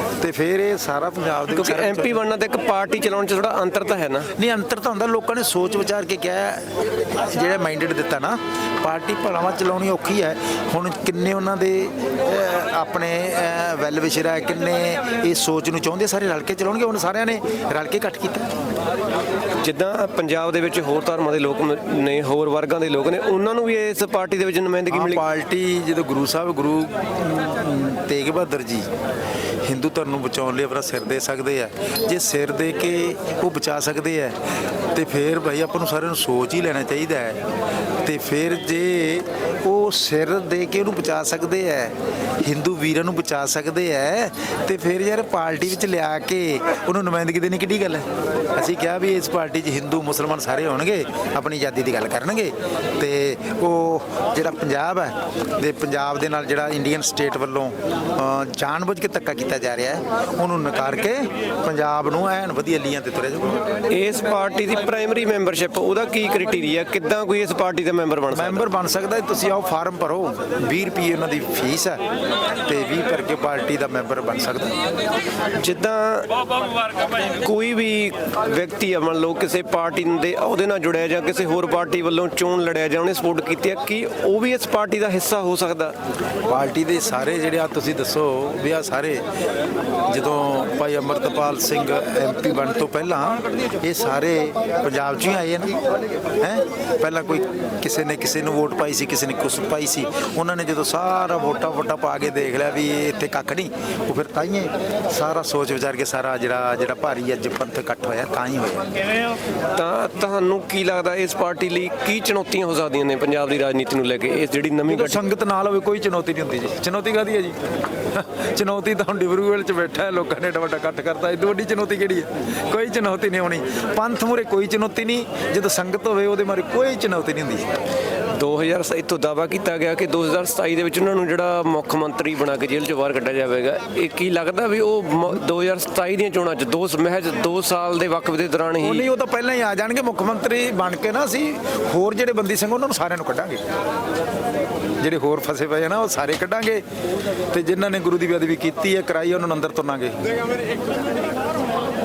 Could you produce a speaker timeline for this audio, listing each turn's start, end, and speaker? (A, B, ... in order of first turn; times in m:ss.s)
0:00.2-0:02.2 A
0:01.5-0:04.3 B
0:04.4-0:18.5 A
0:19.6-0:25.2 B
0:24.9-0:28.9 A
0:29.6-0:34.4 A
0:34.9-0:37.4 A
0:38.0-1:03.6 A
1:03.9-1:08.7 B
1:08.3-1:12.0 A
1:12.7-1:14.8 A
1:15.6-1:16.3 B
1:17.4-1:26.0 B
1:26.5-1:29.2 A
1:30.1-1:35.8 A
1:36.4-1:48.9 A
1:49.7-1:55.2 B
1:54.9-1:57.6 A
1:58.1-2:07.6 A
2:08.3-2:19.1 B
2:18.8-2:23.6 A
2:25.0-2:26.8 A
2:27.5-2:30.2 A